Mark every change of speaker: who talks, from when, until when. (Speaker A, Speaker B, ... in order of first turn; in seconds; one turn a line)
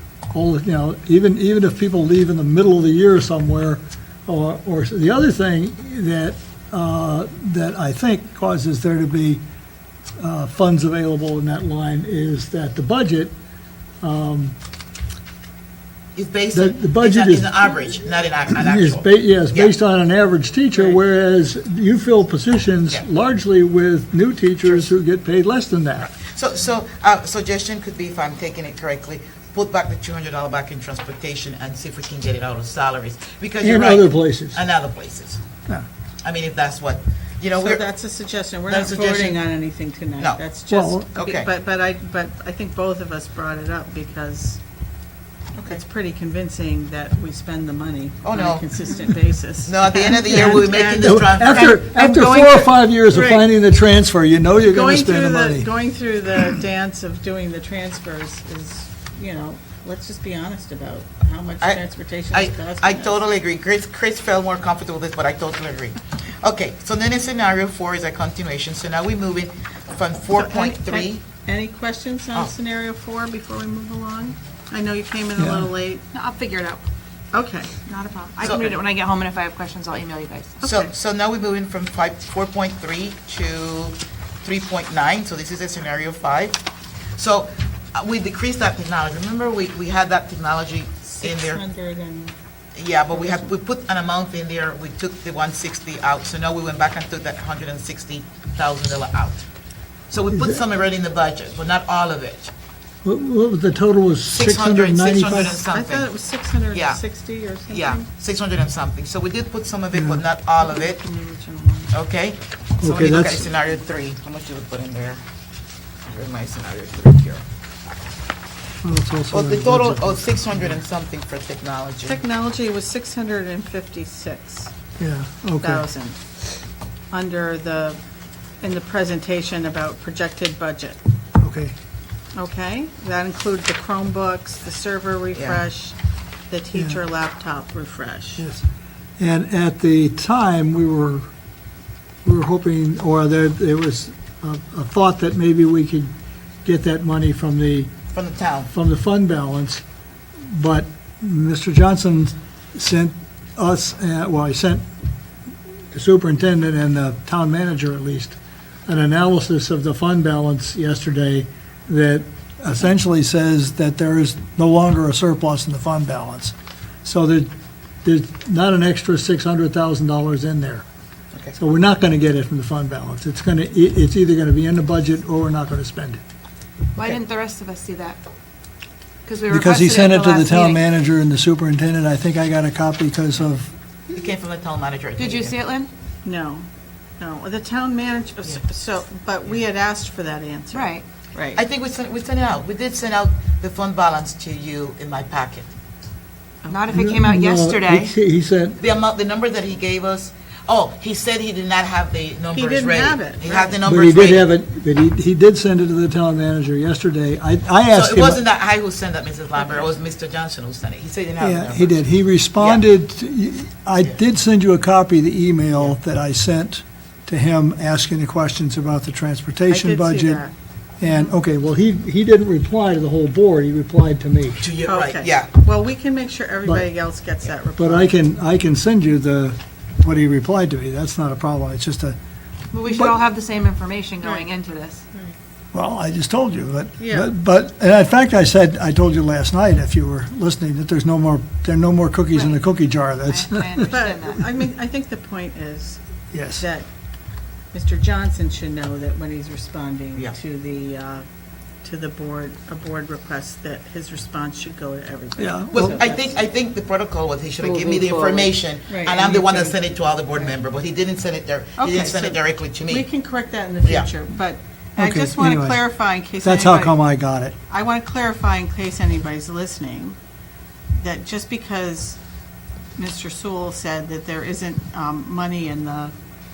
Speaker A: 0.3-9.4
Speaker A: 10.2-13.3
Speaker A: 14.0-14.5
Speaker B: 16.1-19.7
Speaker A: 16.5-17.6
Speaker A: 18.5-26.1
Speaker B: 26.1-35.4
Speaker A: 33.6-34.6
Speaker B: 36.2-37.8
Speaker C: 37.6-44.6
Speaker B: 38.7-39.4
Speaker A: 40.7-41.1
Speaker B: 41.1-41.5
Speaker C: 45.6-51.8
Speaker B: 48.2-48.6
Speaker B: 49.6-51.8
Speaker A: 50.3-55.7
Speaker D: 51.9-52.8
Speaker C: 53.1-53.5
Speaker C: 54.6-63.2
Speaker B: 62.3-71.2
Speaker C: 70.3-76.0
Speaker A: 75.4-75.7
Speaker D: 76.1-76.8
Speaker C: 77.3-77.9
Speaker D: 77.9-80.6
Speaker B: 78.4-78.7
Speaker C: 80.6-80.9
Speaker B: 80.6-86.6
Speaker B: 87.2-91.6
Speaker C: 91.2-92.3
Speaker B: 92.7-99.4
Speaker C: 93.1-93.5
Speaker B: 100.1-102.5
Speaker A: 103.0-105.6
Speaker B: 104.3-106.1
Speaker C: 105.7-108.0
Speaker B: 106.7-107.0
Speaker B: 107.7-111.0
Speaker A: 109.9-110.2
Speaker C: 110.6-111.9
Speaker B: 111.9-115.2
Speaker A: 112.8-113.5
Speaker B: 116.1-117.4
Speaker A: 118.8-120.7
Speaker B: 119.3-122.2
Speaker C: 122.0-124.7
Speaker A: 125.0-125.8
Speaker C: 125.6-126.2
Speaker C: 127.1-128.0
Speaker C: 128.6-131.0
Speaker A: 131.4-131.7
Speaker C: 132.3-135.9
Speaker B: 135.3-135.6
Speaker C: 136.5-138.4
Speaker A: 138.4-138.6
Speaker A: 139.2-141.3
Speaker A: 142.2-146.1
Speaker A: 146.6-147.9
Speaker B: 148.1-148.7
Speaker A: 148.7-149.8
Speaker A: 150.4-154.8
Speaker A: 155.9-167.5
Speaker A: 168.0-170.8
Speaker A: 171.6-176.2
Speaker D: 176.9-178.2
Speaker D: 179.2-180.8
Speaker A: 179.5-183.7
Speaker B: 184.1-185.5
Speaker D: 185.2-185.9
Speaker C: 186.2-186.7
Speaker C: 187.2-191.6
Speaker D: 190.7-191.0
Speaker B: 191.5-195.7
Speaker C: 196.6-196.9
Speaker D: 196.7-198.2
Speaker A: 196.9-198.8
Speaker B: 198.8-204.5
Speaker C: 202.5-203.8
Speaker A: 203.8-208.4
Speaker B: 207.9-212.0
Speaker A: 211.4-220.4
Speaker B: 212.6-212.8
Speaker C: 219.7-220.5
Speaker A: 221.0-224.6
Speaker B: 224.6-225.5
Speaker C: 224.8-228.2
Speaker A: 227.8-232.2
Speaker D: 232.7-235.1
Speaker A: 232.9-233.2
Speaker C: 234.2-234.5
Speaker A: 235.7-243.9
Speaker C: 237.0-237.3
Speaker D: 242.3-242.6
Speaker D: 243.2-244.4
Speaker C: 243.9-246.0
Speaker A: 246.3-246.6
Speaker C: 246.5-246.9
Speaker C: 247.7-251.2
Speaker C: 251.8-256.4
Speaker A: 255.4-256.0
Speaker B: 255.7-263.1
Speaker D: 257.6-258.5
Speaker C: 258.9-259.8
Speaker C: 261.8-267.0
Speaker B: 263.8-264.1
Speaker A: 265.0-265.8
Speaker A: 266.4-267.5
Speaker C: 267.7-270.2
Speaker C: 271.0-272.2
Speaker C: 273.0-276.1